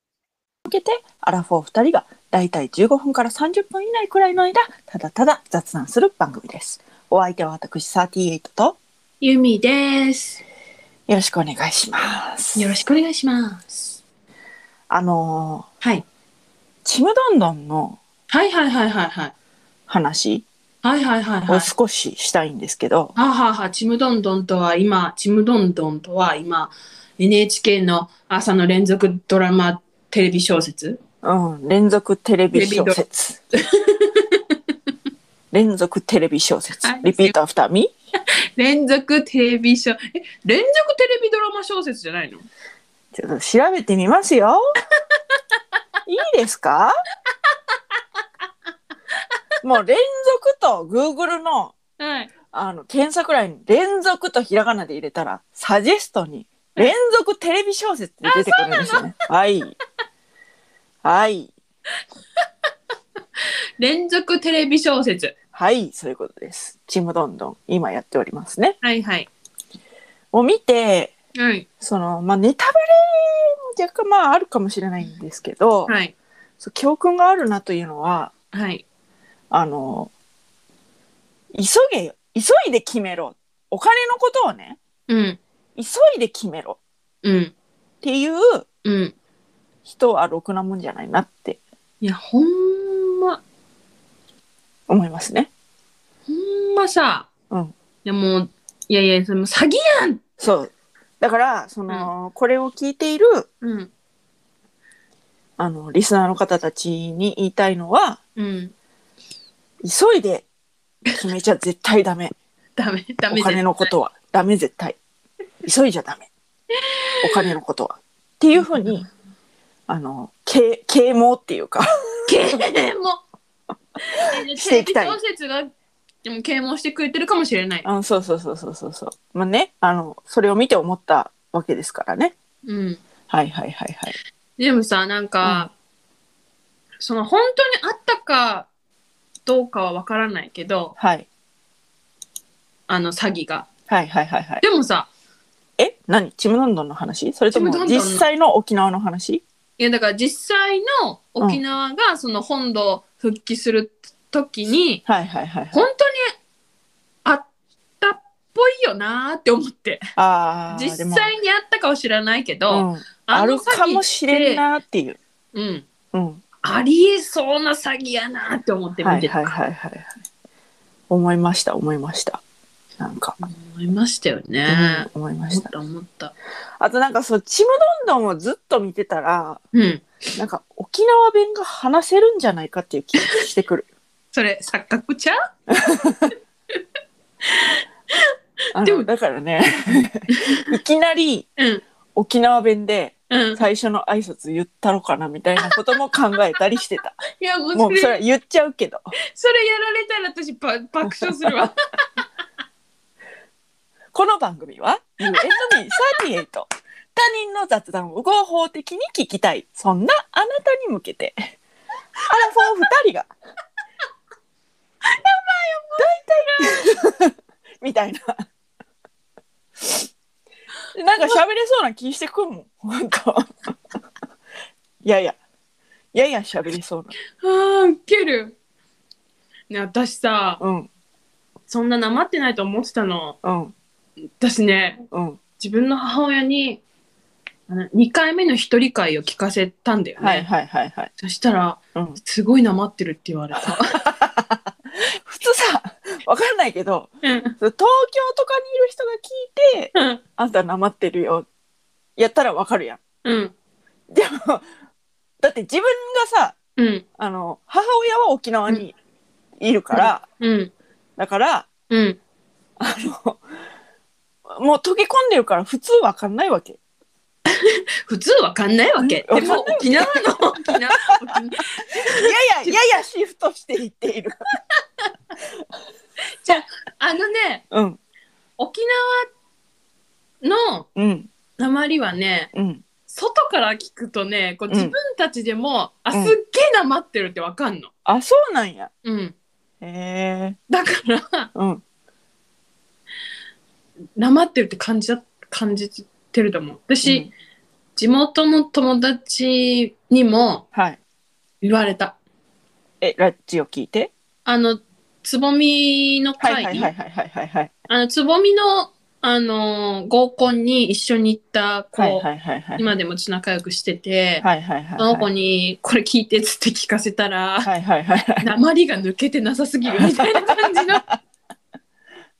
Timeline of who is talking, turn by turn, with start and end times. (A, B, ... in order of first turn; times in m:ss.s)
0:00.6-0:08.8 A
0:09.2-0:10.4 B
0:11.1-0:12.7 A
0:12.6-0:13.9 B
0:14.9-0:15.7 A
0:16.8-0:18.0 A
0:18.3-0:19.3 B
0:19.9-0:20.4 A
0:20.8-0:21.7 B
0:21.5-0:23.1 A
0:23.2-0:31.0 B
0:31.2-0:33.4 A
0:32.5-0:33.0 B
0:33.7-0:34.6 B
0:35.5-0:37.9 A
0:36.8-0:37.4 B
0:38.6-0:42.4 B
0:43.1-0:44.6 A
0:46.0-0:47.0 A
0:49.6-0:51.8 A
0:52.0-0:52.3 B
0:52.5-0:59.7 A
0:58.2-0:59.1 B
1:01.0-1:01.5 A
1:03.8-1:05.3 B
1:05.5-1:08.8 A
1:08.8-1:09.3 B
1:10.3-1:11.2 A
1:11.3-1:11.6 B
1:11.8-1:15.9 A
1:15.9-1:16.1 B
1:16.6-1:18.3 A
1:18.5-1:18.8 B
1:19.5-1:20.1 A
1:21.5-1:24.8 A
1:25.1-1:25.4 B
1:25.8-1:26.8 A
1:27.2-1:27.5 B
1:28.0-1:28.6 A
1:28.8-1:29.1 B
1:29.9-1:31.6 A
1:32.0-1:33.4 B
1:34.9-1:35.5 A
1:36.3-1:37.3 B
1:38.0-1:40.2 B
1:40.4-1:43.5 A
1:43.6-1:43.9 B
1:45.6-1:48.2 A
1:48.4-1:48.7 B
1:49.8-1:50.4 A
1:51.2-1:52.3 A
1:52.8-1:53.9 B
1:53.3-1:55.0 A
1:55.6-1:56.3 A
1:56.7-1:57.5 B
1:57.2-1:59.1 A
1:59.9-2:02.5 A
2:02.3-2:03.2 B
2:04.1-2:05.7 B
2:04.2-2:05.2 A
2:06.2-2:07.9 B
2:07.8-2:12.3 A
2:12.6-2:13.0 B
2:13.3-2:14.1 A
2:14.6-2:15.7 B
2:15.4-2:15.7 A
2:17.0-2:18.7 B
2:19.4-2:20.9 B
2:21.0-2:21.3 A
2:22.9-2:23.7 B
2:23.9-2:24.6 A
2:24.6-2:25.1 B
2:25.8-2:29.4 A
2:27.5-2:28.2 B
2:29.8-2:35.0 B
2:35.0-2:35.8 A
2:35.7-2:36.3 B
2:38.0-2:40.0 B
2:40.2-2:41.3 A
2:40.7-2:44.6 B
2:42.7-2:45.2 A
2:45.5-2:45.8 B
2:46.1-2:46.4 A
2:46.6-2:49.5 B
2:49.0-2:50.1 A
2:51.1-2:52.4 A
2:53.0-2:53.4 A
2:53.4-2:56.3 B
2:54.7-2:55.7 A
2:56.8-2:59.6 A
2:59.7-3:00.1 B
3:00.4-3:03.9 A
3:04.3-3:05.4 B
3:05.7-3:06.3 A
3:07.4-3:08.3 B
3:08.7-3:11.5 A
3:08.8-3:09.1 B
3:09.9-3:10.7 B
3:11.6-3:11.8 B
3:12.1-3:17.2 A
3:13.3-3:13.6 B
3:17.4-3:18.2 B
3:17.7-3:19.1 A
3:19.3-3:21.7 B
3:21.0-3:21.7 A
3:24.1-3:31.5 A
3:25.4-3:26.2 B
3:32.2-3:33.3 A
3:35.0-3:36.9 B
3:36.0-3:38.5 A
3:39.8-3:40.1 A
3:40.9-3:43.7 A
3:45.0-3:45.4 A
3:46.1-3:47.1 A
3:47.4-3:48.6 B
3:49.7-3:50.6 B
3:50.6-3:50.9 A
3:51.7-3:53.4 B
3:53.4-3:53.7 A
3:54.4-3:55.0 B
3:55.1-3:55.4 A
3:55.6-3:56.8 B
3:57.7-4:00.5 B
4:00.2-4:01.1 A
4:01.2-4:04.0 B
4:01.9-4:02.2 A
4:03.6-4:11.5 A
4:07.2-4:07.5 B
4:09.9-4:10.2 B
4:12.2-4:13.0 A
4:13.2-4:13.5 B
4:14.1-4:14.6 A
4:15.4-4:16.6 A
4:16.8-4:17.0 B
4:17.2-4:18.9 A
4:19.6-4:20.2 A
4:19.9-4:20.7 B
4:21.2-4:21.7 A
4:21.9-4:22.2 B
4:22.8-4:23.4 A
4:24.5-4:26.8 A
4:27.5-4:32.8 B
4:29.0-4:30.4 A
4:32.0-4:34.5 A
4:36.4-4:37.6 B
4:37.7-4:38.0 A
4:38.6-4:39.3 B
4:40.4-4:40.9 B
4:41.0-4:41.3 A
4:41.6-4:42.5 B
4:42.5-4:42.8 A
4:43.1-4:47.9 B
4:44.7-4:44.9 A
4:48.0-4:48.9 A
4:49.0-4:49.3 B
4:49.8-4:50.6 A
4:50.7-4:51.5 B
4:51.5-4:51.8 A
4:54.2-4:57.3 B
4:57.0-4:57.3 A
4:58.0-5:00.6 B
5:00.7-5:01.0 A
5:01.6-5:02.2 B
5:03.0-5:04.1 A
5:04.4-5:06.9 B
5:06.4-5:07.7 A
5:07.9-5:12.2 B
5:12.0-5:12.9 A
5:12.8-5:14.4 B
5:14.4-5:15.3 A
5:15.0-5:17.7 B
5:17.6-5:18.5 A
5:18.4-5:21.0 B
5:20.0-5:21.2 A